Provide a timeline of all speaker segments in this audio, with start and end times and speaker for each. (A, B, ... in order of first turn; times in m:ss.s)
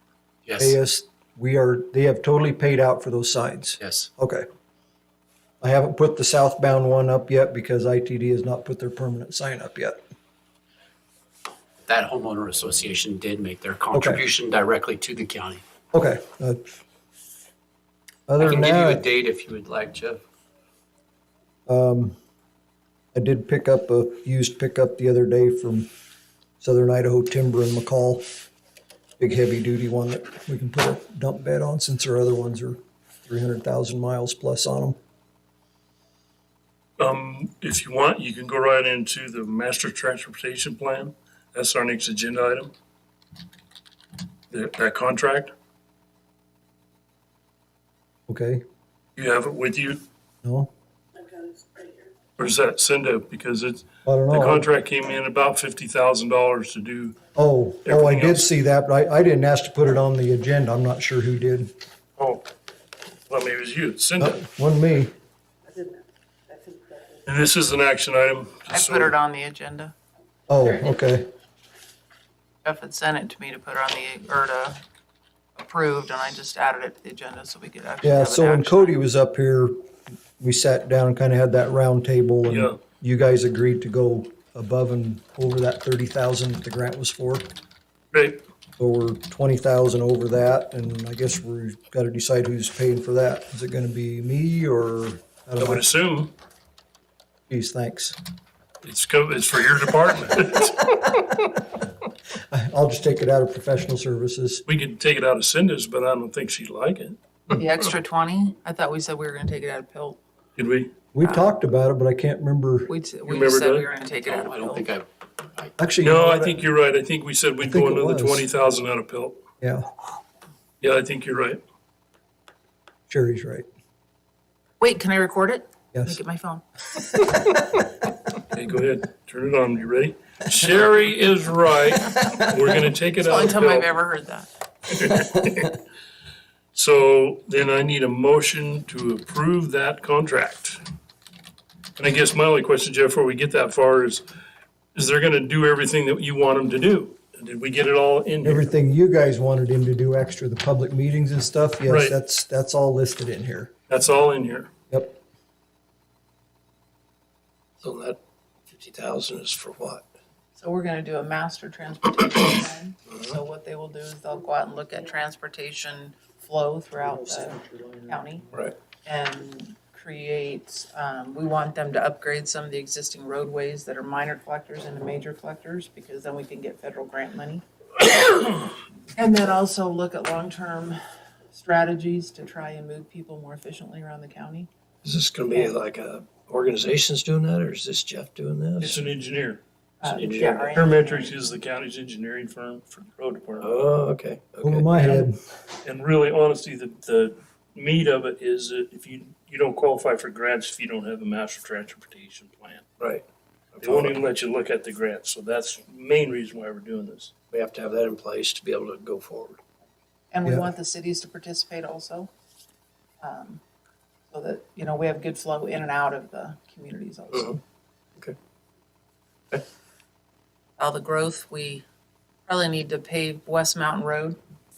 0:00.5-0:00.8 A
0:00.6-0:04.4 B
0:03.8-0:04.1 A
0:05.6-0:10.0 B
0:11.8-0:15.6 A
0:13.9-0:14.2 B
0:15.9-0:16.7 B
0:18.3-0:19.1 B
0:18.4-0:20.2 A
0:21.7-0:22.2 B
0:23.1-0:25.9 B
0:26.6-0:28.3 B
0:29.2-0:35.0 B
0:37.0-0:42.7 C
0:44.5-0:45.5 C
0:48.3-0:48.6 B
0:49.2-0:50.0 C
0:50.4-0:50.7 B
0:52.4-0:57.2 C
0:54.0-0:54.7 B
0:57.4-1:01.7 B
0:57.9-0:58.5 C
1:02.2-1:02.5 C
1:03.3-1:04.4 C
1:04.2-1:05.1 B
1:07.3-1:09.1 C
1:08.7-1:10.0 D
1:10.5-1:11.3 B
1:12.6-1:14.8 D
1:15.6-1:19.0 D
1:18.0-1:19.8 B
1:20.4-1:27.5 B
1:22.4-1:22.8 C
1:28.1-1:28.4 C
1:28.8-1:35.8 B
1:35.6-1:36.3 C
1:37.5-1:38.2 B
1:38.8-1:40.9 C
1:42.5-1:44.6 B
1:44.7-1:47.2 C
1:47.6-1:50.2 D
1:50.6-1:50.9 C
1:51.1-1:52.9 B
1:51.2-1:51.5 D
1:52.9-1:54.9 D
1:53.2-1:53.9 C
1:54.2-1:55.7 A
1:55.8-1:56.6 B
1:56.0-1:59.4 C
1:57.6-1:58.5 B
2:00.8-2:01.6 C
2:03.1-2:03.6 B
2:04.8-2:06.6 D
2:05.9-2:06.2 B
2:08.5-2:14.0 C
2:13.2-2:14.5 D
2:14.9-2:15.7 C
2:16.7-2:20.8 C
2:22.0-2:24.2 C
2:25.0-2:28.7 C
2:28.4-2:33.7 B
2:31.9-2:32.2 C
2:33.9-2:34.7 C
2:34.9-2:35.2 B
2:37.8-2:40.0 E
2:40.6-2:48.4 D
2:43.1-2:43.4 E
2:49.0-2:57.6 D
2:59.2-3:01.0 D
3:01.5-3:04.7 D
3:05.0-3:09.0 E
3:08.8-3:09.6 C
3:10.0-3:11.4 D
3:10.1-3:10.8 E
3:10.7-3:13.7 C
3:13.6-3:14.9 E
3:14.6-3:15.4 B
3:15.8-3:22.9 C
3:23.8-3:24.2 E
3:23.8-3:27.3 C
3:27.5-3:29.6 E
3:30.3-3:32.3 D
3:33.2-3:33.6 D
3:34.3-3:37.6 D
3:37.3-3:37.6 E
3:40.8-3:41.8 D
3:42.5-3:44.4 D